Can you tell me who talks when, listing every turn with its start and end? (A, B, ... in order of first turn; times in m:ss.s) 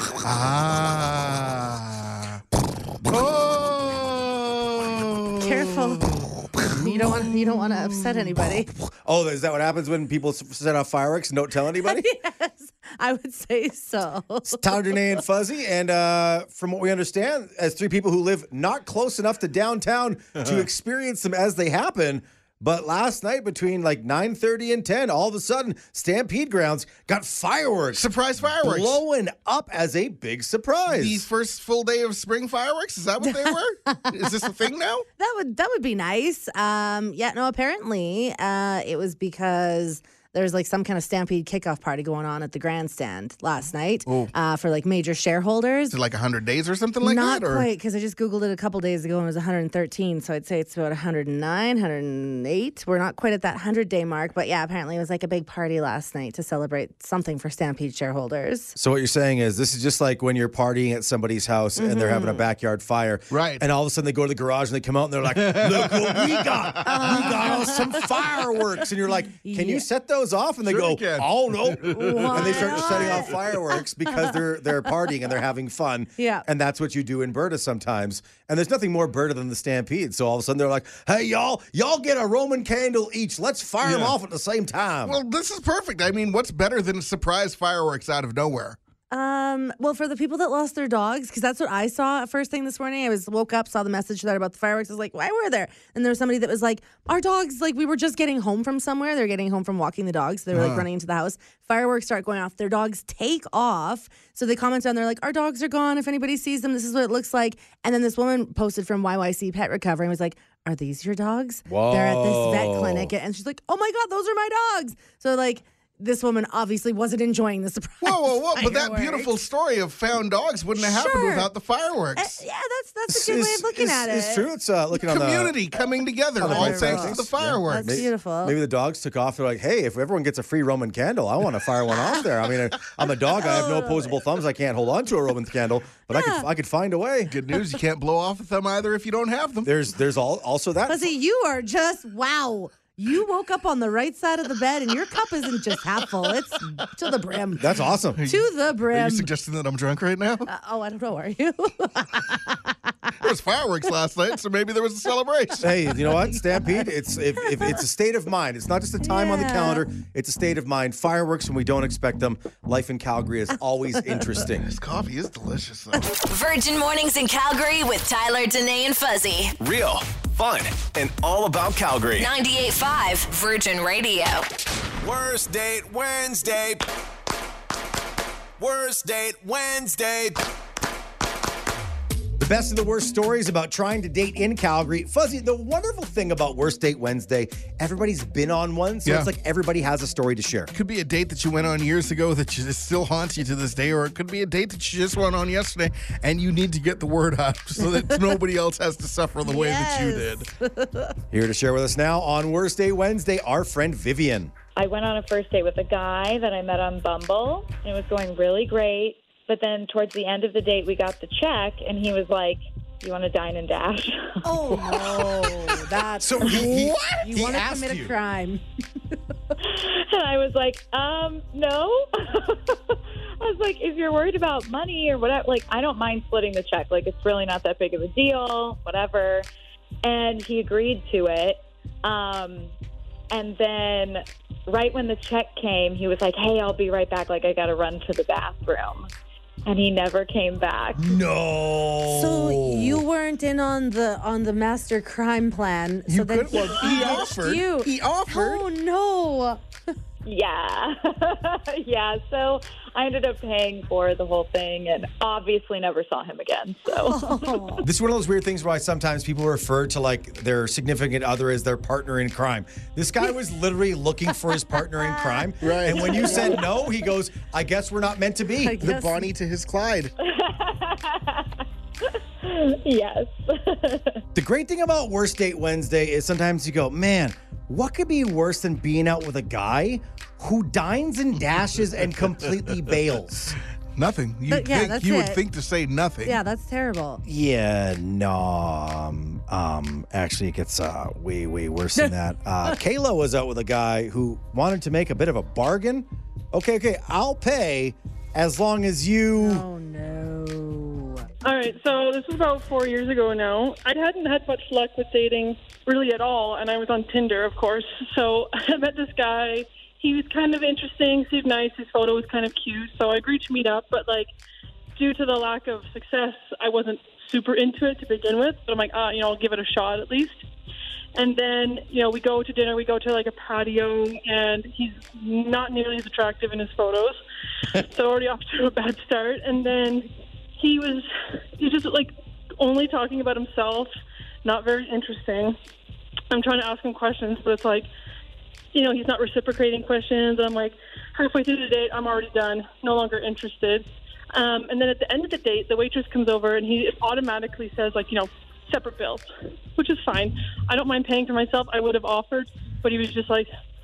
0:00.2-0:02.4 A
0:03.1-0:08.3 A
0:05.4-0:06.1 B
0:06.7-0:08.7 B
0:09.0-0:12.0 C
0:11.8-0:15.2 B
0:14.5-0:28.1 C
0:27.9-0:29.0 A
0:28.6-0:31.3 C
0:30.9-0:35.0 A
0:33.2-0:34.0 B
0:35.2-0:46.0 B
0:44.0-0:44.3 A
0:45.9-0:47.7 A
0:47.0-0:58.7 B
0:58.8-1:25.2 C
1:01.8-1:02.4 B
1:03.3-1:03.6 A
1:05.3-1:06.8 A
1:06.8-1:07.9 B
1:09.4-1:09.8 B
1:10.6-1:13.3 A
1:11.9-1:14.3 B
1:16.2-1:16.4 B
1:23.8-1:24.1 A
1:25.0-1:28.8 A
1:29.1-1:59.3 B
1:40.5-1:40.8 A
1:51.7-1:53.1 C
1:58.0-2:02.4 A
2:00.8-2:01.5 B
2:02.2-2:04.5 B
2:03.1-2:05.5 C
2:05.0-2:08.1 A
2:06.4-2:17.3 C
2:06.4-2:08.6 B
2:13.4-2:14.2 B
2:16.1-2:16.5 B
2:17.3-2:19.7 A
2:19.6-2:21.1 C
2:20.8-2:29.3 B
2:27.6-2:28.2 C
2:28.2-2:30.5 A
2:30.5-2:33.1 B
2:33.2-2:35.7 A
2:35.6-2:44.7 C
2:37.5-2:37.8 B
2:39.0-2:39.8 B
2:44.6-2:46.1 A
2:46.2-2:49.5 D
2:49.6-2:52.3 E
2:52.2-2:54.4 D
2:55.0-2:56.8 E
2:58.6-3:00.4 E
3:02.4-3:10.7 C
3:09.0-3:09.3 A
3:10.7-3:20.4 A
3:17.8-3:18.2 B
3:19.4-3:21.2 B
3:21.3-3:24.5 C
3:24.8-3:34.4 F
3:34.4-3:38.6 B
3:34.9-3:35.3 C
3:36.2-3:38.1 C
3:39.6-3:49.5 F
3:50.0-3:52.7 F
3:53.3-3:59.1 F
3:59.6-4:01.0 F
4:01.0-4:03.0 C
4:02.1-4:09.6 B
4:06.1-4:08.6 A
4:06.6-4:07.3 C
4:10.2-4:17.7 F
4:17.0-4:17.8 B
4:17.8-4:28.8 C
4:25.0-4:26.5 B
4:25.6-4:26.2 A
4:26.1-4:26.6 F
4:28.6-4:29.3 B
4:28.8-4:30.1 A
4:30.4-4:31.4 F
4:32.4-4:34.2 F
4:34.3-4:43.5 C
4:43.9-4:46.4 A
4:44.5-4:45.4 B
4:46.2-4:47.2 B
4:47.2-4:59.6 C
4:52.0-4:52.8 B
4:59.4-5:01.3 B
5:01.4-5:14.3 G
5:15.0-5:20.4 G
5:21.1-5:27.2 G
5:27.7-5:31.0 G
5:31.6-5:33.9 G
5:34.4-5:35.5 G
5:36.3-5:37.9 G
5:38.7-5:53.5 G